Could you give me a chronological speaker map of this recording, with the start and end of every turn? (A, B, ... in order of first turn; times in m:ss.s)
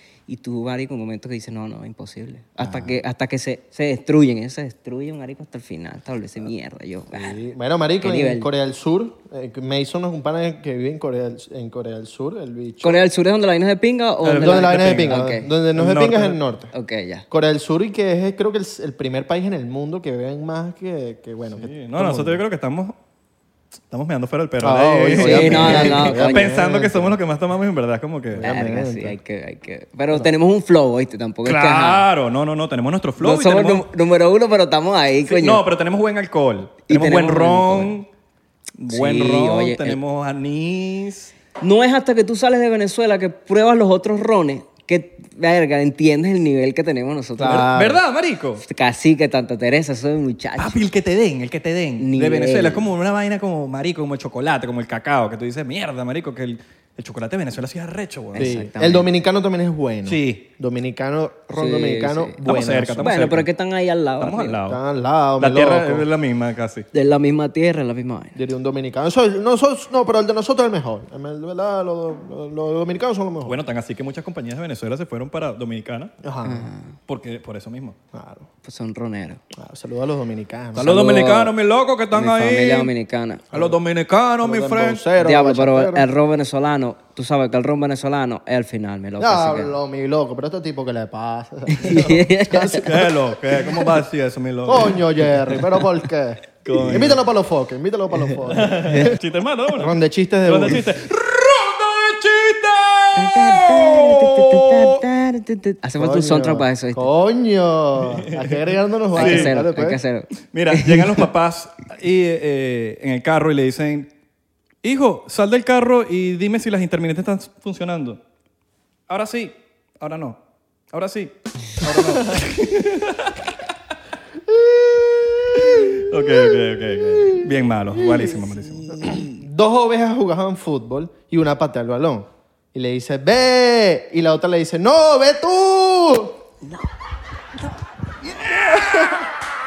0:00.3-0:07.4 A
0:02.6-0:02.9 B
0:07.1-0:13.0 B
0:08.0-0:08.5 A
0:12.8-0:15.5 A
0:14.2-0:15.2 C
0:14.4-0:16.7 B
0:15.7-0:16.4 C
0:16.7-0:17.2 A
0:17.3-0:22.4 B
0:21.5-0:22.9 C
0:23.9-0:28.5 C
0:24.6-0:27.2 B
0:25.2-0:26.5 A
0:28.3-0:29.2 B
0:28.4-0:32.1 A
0:31.4-0:33.8 C
0:33.2-0:35.6 A
0:35.2-0:38.1 C
0:36.9-0:37.9 A
0:38.8-0:41.3 C
0:38.9-0:40.0 A
0:41.6-0:47.7 A
0:47.4-0:48.0 B
0:47.4-0:48.6 C
0:48.6-0:50.8 A
0:50.6-0:58.6 C
0:52.0-0:52.8 A
0:58.3-0:59.1 A
0:58.4-1:03.2 B
1:00.0-1:00.5 C
1:01.5-1:02.4 A
1:02.4-1:03.5 C
1:03.0-1:04.6 A
1:04.2-1:04.8 C
1:04.7-1:06.1 B
1:05.4-1:06.9 C
1:06.9-1:08.4 A
1:08.3-1:13.6 B
1:13.4-1:16.1 C
1:16.2-1:16.7 B
1:16.4-1:16.9 A
1:17.1-1:18.0 C
1:18.1-1:18.5 B
1:18.6-1:19.4 A
1:19.5-1:21.1 B
1:20.7-1:21.5 A
1:20.7-1:22.9 C
1:22.1-1:23.4 A
1:23.5-1:23.8 B
1:23.5-1:25.0 C
1:24.4-1:26.1 B
1:25.2-1:29.7 A
1:29.2-1:33.8 B
1:31.7-1:32.9 A
1:32.8-1:35.8 C
1:34.6-1:39.2 B
1:36.6-1:37.2 C
1:38.5-1:45.0 C
1:38.8-1:39.1 A
1:39.7-1:40.9 B
1:43.1-1:47.1 A
1:46.0-1:50.0 B
1:48.0-1:49.6 C
1:49.1-1:51.3 A
1:50.4-1:54.1 C
1:54.8-1:58.2 C
1:59.1-2:00.4 C
2:00.9-2:03.6 C
2:01.9-2:02.4 B
2:04.4-2:16.4 B
2:05.6-2:09.1 C
2:08.7-2:09.4 A
2:18.3-2:19.3 C